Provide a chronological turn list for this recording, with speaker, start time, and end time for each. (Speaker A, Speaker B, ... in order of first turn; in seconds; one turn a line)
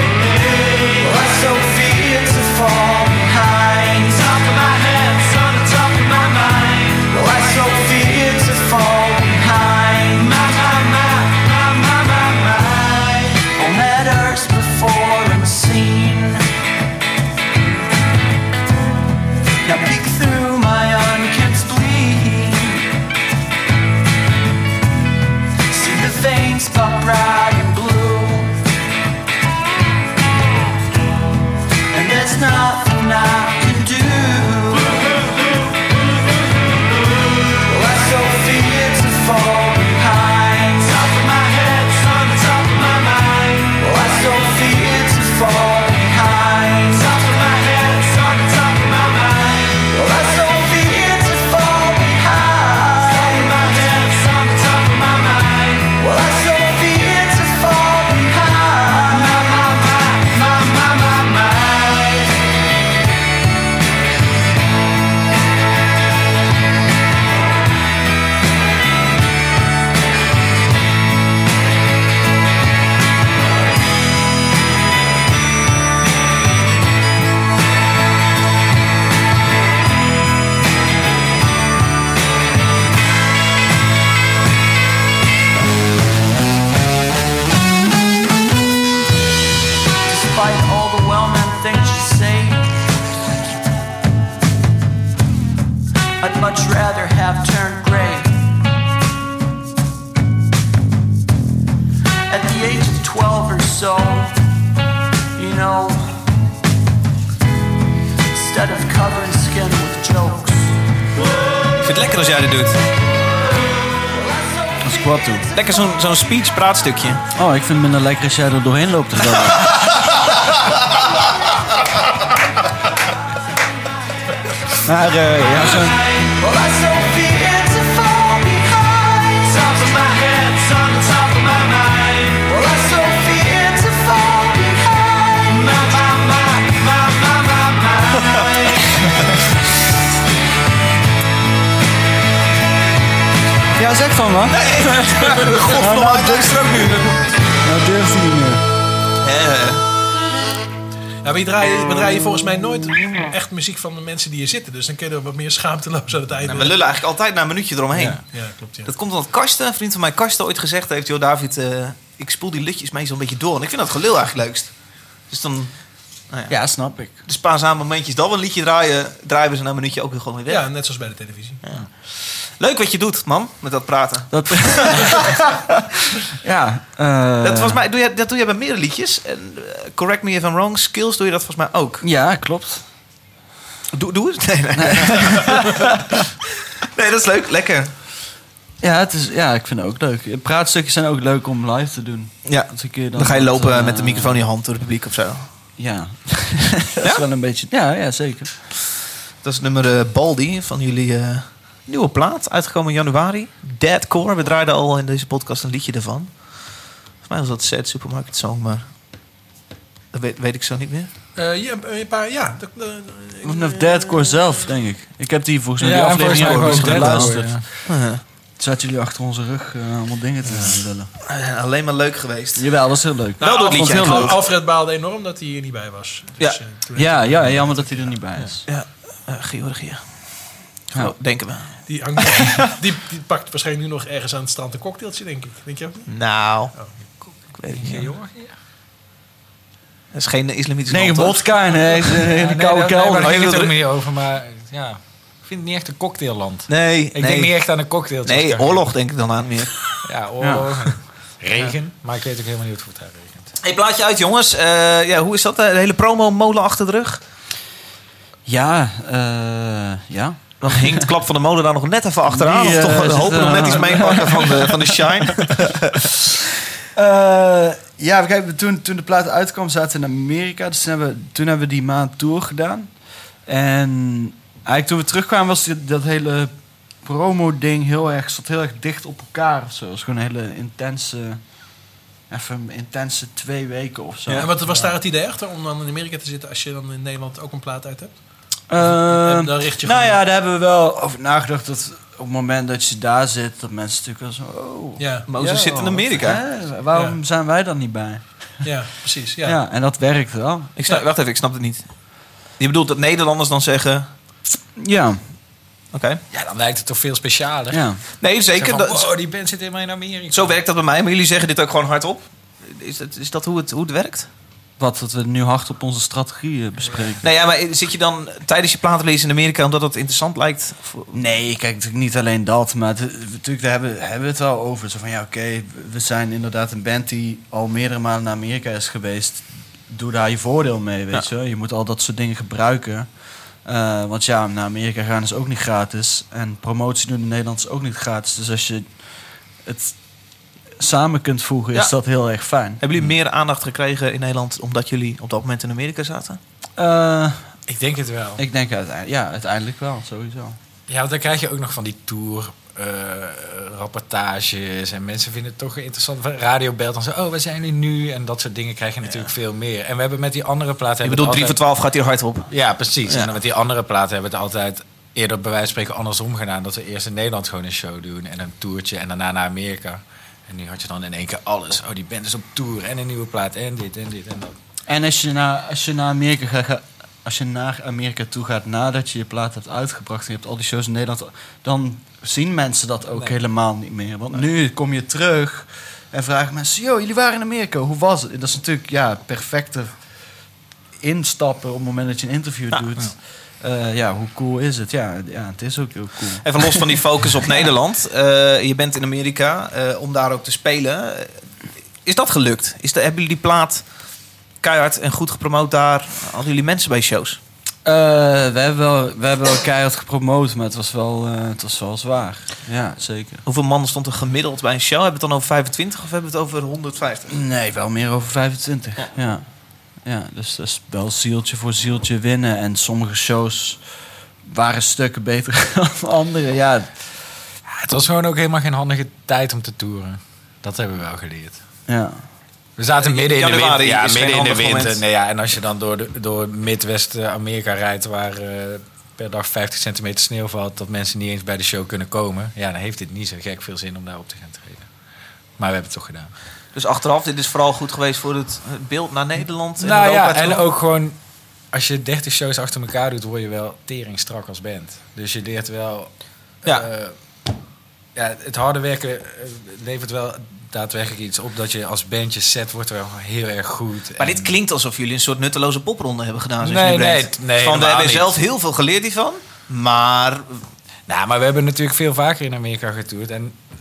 Speaker A: 0.7-16.4
Speaker A: 19.6-22.9
Speaker A: 25.7-28.6
Speaker A: 31.9-35.2
Speaker A: 37.5-62.3
Speaker A: 90.1-92.7
Speaker A: 96.2-98.4
Speaker A: 102.3-104.4
Speaker A: 105.3-106.2
Speaker A: 108.3-110.8
Speaker B: 111.8-112.8
Speaker A: 114.1-115.4
Speaker C: 114.8-115.5
Speaker B: 115.5-117.2
Speaker C: 117.3-119.7
Speaker B: 119.4-119.9
Speaker C: 124.8-126.0
Speaker A: 125.9-138.8
Speaker C: 143.8-148.6
Speaker B: 144.5-147.2
Speaker B: 149.2-149.8
Speaker D: 151.2-156.8
Speaker B: 156.4-158.3
Speaker D: 158.3-158.9
Speaker B: 158.8-166.6
Speaker C: 166.5-167.2
Speaker B: 167.2-170.7
Speaker D: 170.5-171.6
Speaker B: 171.6-175.4
Speaker C: 174.3-175.7
Speaker C: 176.4-177.8
Speaker B: 177.4-182.0
Speaker C: 182.0-182.8
Speaker B: 183.9-186.1
Speaker C: 184.7-185.9
Speaker B: 186.9-187.9
Speaker C: 188.8-194.4
Speaker B: 192.4-195.4
Speaker C: 195.8-198.7
Speaker B: 199.4-208.9
Speaker B: 210.1-211.1
Speaker D: 211.4-214.7
Speaker C: 213.4-221.1
Speaker E: 215.8-217.6
Speaker B: 216.2-218.2
Speaker B: 221.3-222.7
Speaker C: 222.6-224.4
Speaker B: 223.4-224.4
Speaker D: 223.4-228.2
Speaker C: 226.9-228.7
Speaker B: 228.7-230.3
Speaker B: 230.9-231.8
Speaker D: 231.9-236.1
Speaker B: 236.1-236.7
Speaker E: 237.2-238.5
Speaker B: 237.6-238.1
Speaker B: 240.1-241.5
Speaker C: 240.9-243.4
Speaker E: 242.3-248.9
Speaker B: 243.2-243.7
Speaker B: 246.7-247.6
Speaker B: 248.2-250.0
Speaker E: 250.0-253.5
Speaker C: 250.4-250.9
Speaker B: 253.6-257.2
Speaker C: 258.4-261.1
Speaker B: 260.6-266.1
Speaker C: 262.3-265.6
Speaker C: 266.9-272.9
Speaker C: 273.4-281.4
Speaker C: 282.3-284.5
Speaker B: 284.3-284.5
Speaker D: 284.4-288.1
Speaker C: 288.7-298.2
Speaker D: 288.8-290.2
Speaker D: 295.0-295.3
Speaker B: 295.3-296.4
Speaker D: 298.6-299.6
Speaker C: 299.4-300.7
Speaker B: 300.8-304.1
Speaker C: 304.8-305.2
Speaker B: 305.9-306.2
Speaker E: 306.3-310.6
Speaker C: 307.7-308.0
Speaker B: 308.2-309.1
Speaker B: 310.3-314.3
Speaker C: 314.8-317.2
Speaker E: 316.9-317.1
Speaker B: 317.2-321.1
Speaker C: 321.1-333.1
Speaker C: 333.6-338.9
Speaker C: 339.6-340.0
Speaker C: 340.8-342.8
Speaker B: 342.8-346.4
Speaker C: 346.8-347.6
Speaker E: 347.7-348.4
Speaker C: 348.4-350.6
Speaker E: 350.9-361.6
Speaker B: 361.0-362.5
Speaker E: 362.5-374.5
Speaker B: 363.1-363.3
Speaker C: 374.9-389.9
Speaker C: 391.0-396.9
Speaker B: 396.4-401.4
Speaker B: 402.0-403.9
Speaker B: 404.6-407.4
Speaker C: 407.8-413.4
Speaker B: 413.4-417.4
Speaker C: 417.3-419.4
Speaker C: 420.0-423.8
Speaker C: 424.4-426.9
Speaker E: 427.8-431.6
Speaker C: 431.9-432.2
Speaker E: 432.8-444.9
Speaker B: 433.0-435.0
Speaker E: 445.6-446.3
Speaker B: 446.7-450.6
Speaker E: 449.8-451.2
Speaker E: 451.7-456.1
Speaker E: 456.6-457.1
Speaker E: 458.1-464.6
Speaker B: 464.2-470.6
Speaker E: 466.6-468.4
Speaker E: 471.1-473.6